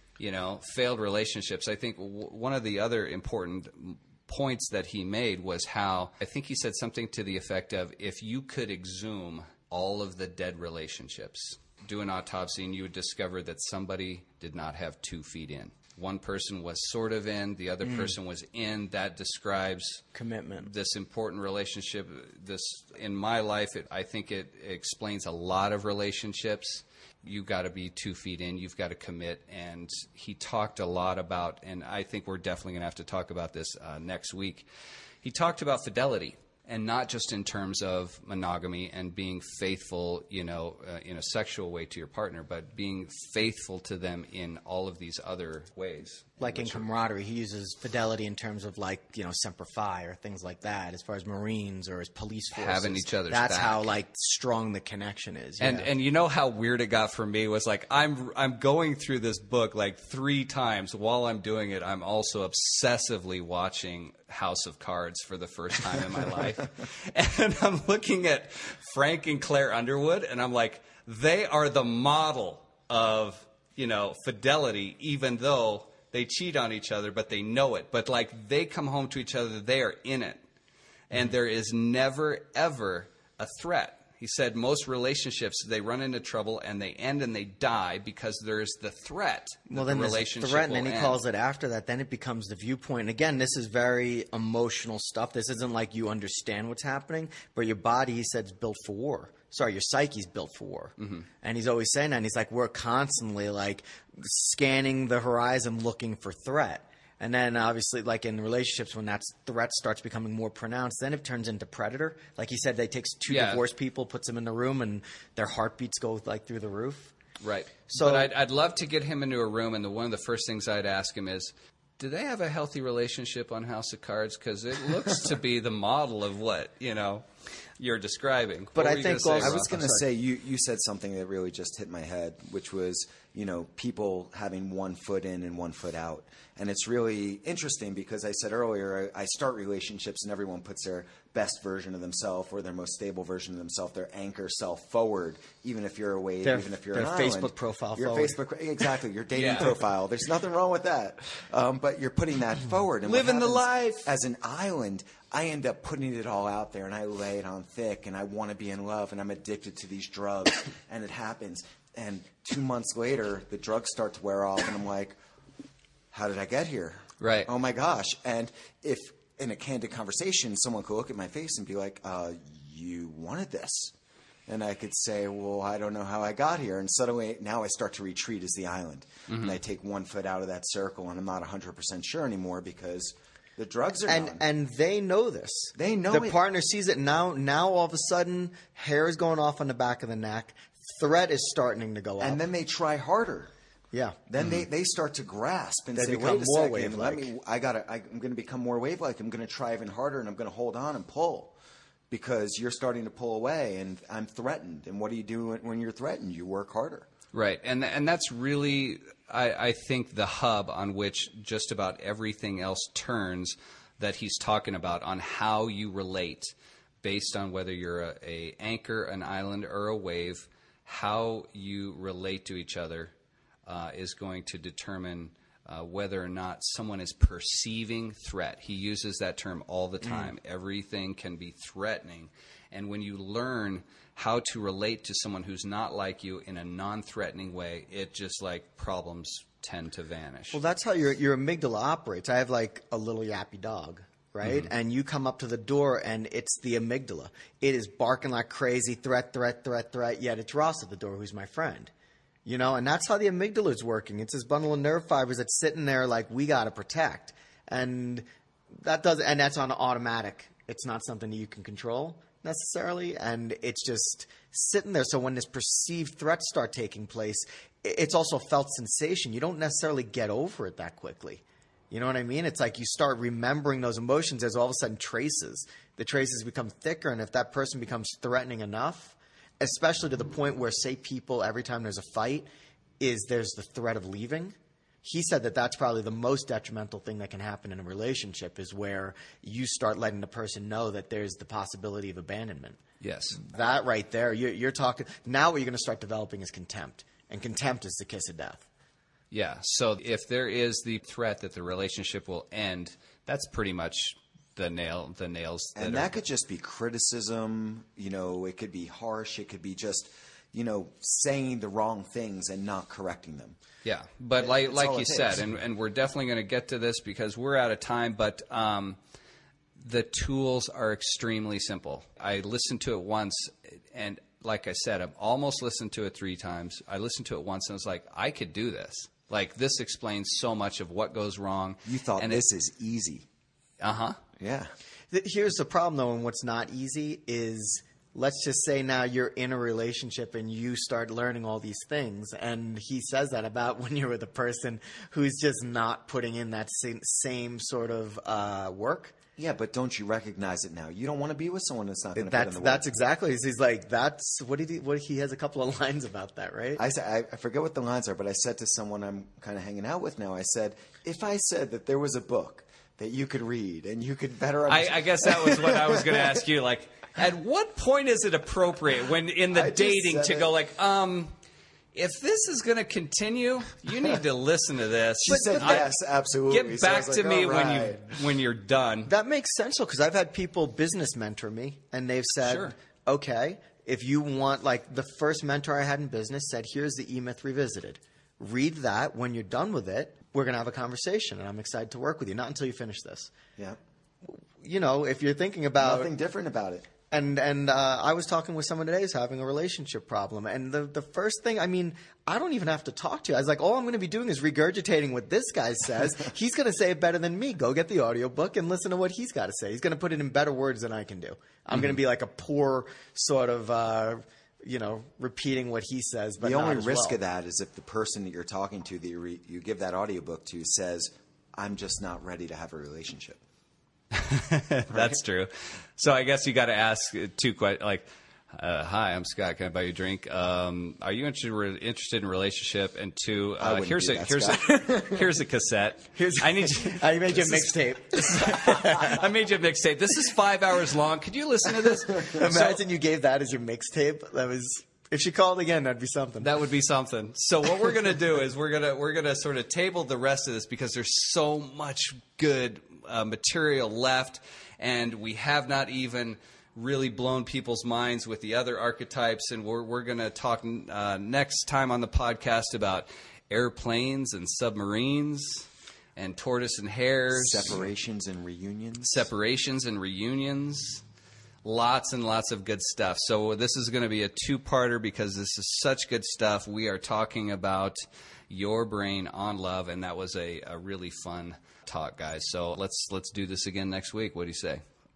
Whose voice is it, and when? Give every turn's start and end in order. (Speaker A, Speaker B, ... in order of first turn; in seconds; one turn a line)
Speaker A: 0.2-20.0
Speaker B: 17.8-18.1
Speaker B: 20.1-20.7
Speaker A: 20.6-34.7
Speaker A: 35.2-46.9
Speaker B: 46.4-55.9
Speaker A: 52.5-53.9
Speaker A: 55.6-80.4
Speaker A: 81.1-91.2
Speaker B: 89.7-117.1
Speaker A: 101.0-101.3
Speaker A: 113.3-113.6
Speaker A: 117.4-127.2
Speaker B: 117.9-118.3
Speaker A: 127.8-129.7
Speaker B: 128.8-130.1
Speaker C: 129.4-165.2
Speaker B: 146.4-148.4
Speaker A: 149.3-149.7
Speaker A: 153.1-154.1
Speaker C: 166.1-173.9
Speaker A: 167.2-167.5
Speaker C: 174.5-184.4
Speaker A: 179.3-179.6
Speaker B: 184.1-192.4
Speaker C: 185.8-186.4
Speaker C: 192.2-193.5
Speaker B: 193.9-194.2
Speaker C: 194.3-201.5
Speaker B: 195.9-197.3
Speaker C: 202.1-207.1
Speaker A: 207.3-223.1
Speaker A: 223.7-240.6
Speaker B: 230.0-230.3
Speaker B: 240.5-251.9
Speaker A: 244.4-244.7
Speaker B: 252.4-282.5
Speaker B: 283.0-292.8
Speaker A: 293.0-293.4
Speaker B: 293.3-298.6
Speaker A: 299.3-306.2
Speaker C: 305.8-313.6
Speaker A: 313.9-319.0
Speaker C: 314.4-315.4
Speaker A: 319.8-332.4
Speaker C: 331.9-333.3
Speaker A: 333.8-334.2
Speaker C: 334.4-334.7
Speaker B: 335.1-349.1
Speaker C: 349.4-352.8
Speaker B: 352.2-356.8
Speaker C: 356.8-366.4
Speaker A: 364.7-371.3
Speaker C: 369.5-370.5
Speaker A: 371.9-375.9
Speaker C: 375.2-378.2
Speaker B: 375.3-375.9
Speaker A: 376.5-379.1
Speaker B: 379.1-393.3
Speaker A: 382.4-382.7
Speaker B: 394.3-396.1
Speaker C: 395.8-396.9
Speaker B: 397.1-417.2
Speaker C: 416.4-423.4
Speaker A: 424.1-442.8
Speaker C: 424.9-425.2
Speaker C: 433.6-435.2
Speaker B: 436.2-439.2
Speaker B: 442.2-446.5
Speaker A: 446.4-467.8
Speaker C: 467.3-469.3
Speaker A: 469.0-471.0
Speaker A: 471.6-484.8